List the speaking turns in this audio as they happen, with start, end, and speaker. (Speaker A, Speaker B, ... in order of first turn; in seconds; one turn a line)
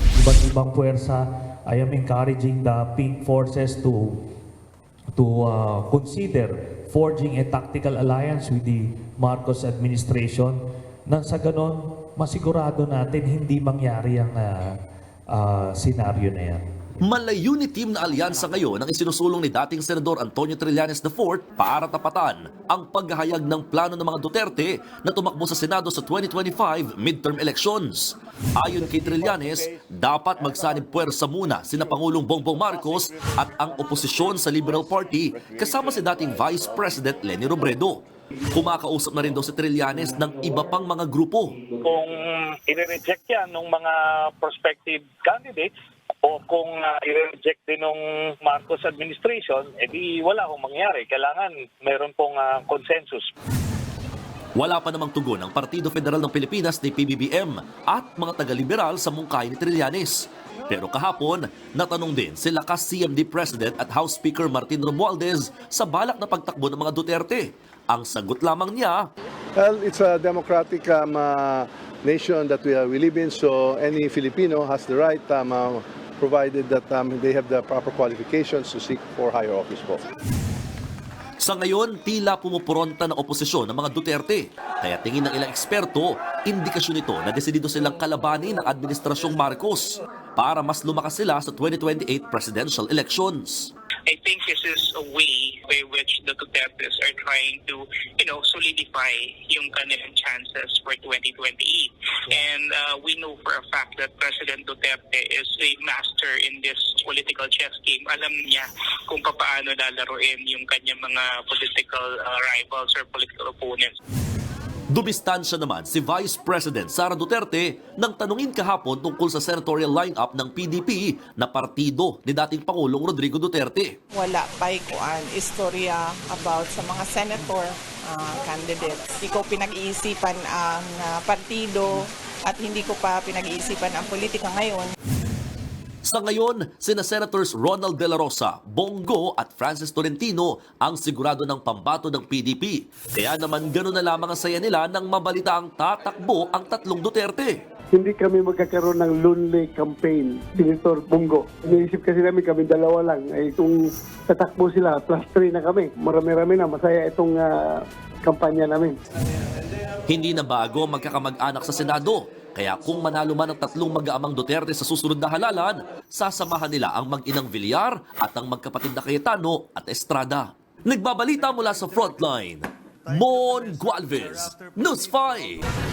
Speaker A: 0.2-4.2
Speaker A: 5.2-14.5
Speaker A: 15.3-16.6
Speaker B: 17.0-38.0
Speaker B: 38.5-41.6
Speaker C: 41.7-53.3
Speaker B: 54.6-69.1
Speaker D: 69.6-80.0
Speaker B: 81.4-93.7
Speaker E: 94.1-114.0
Speaker B: 114.9-123.9
Speaker F: 124.1-134.9
Speaker B: 136.1-147.6
Speaker G: 147.9-153.8
Speaker G: 154.3-159.0
Speaker B: 160.1-175.7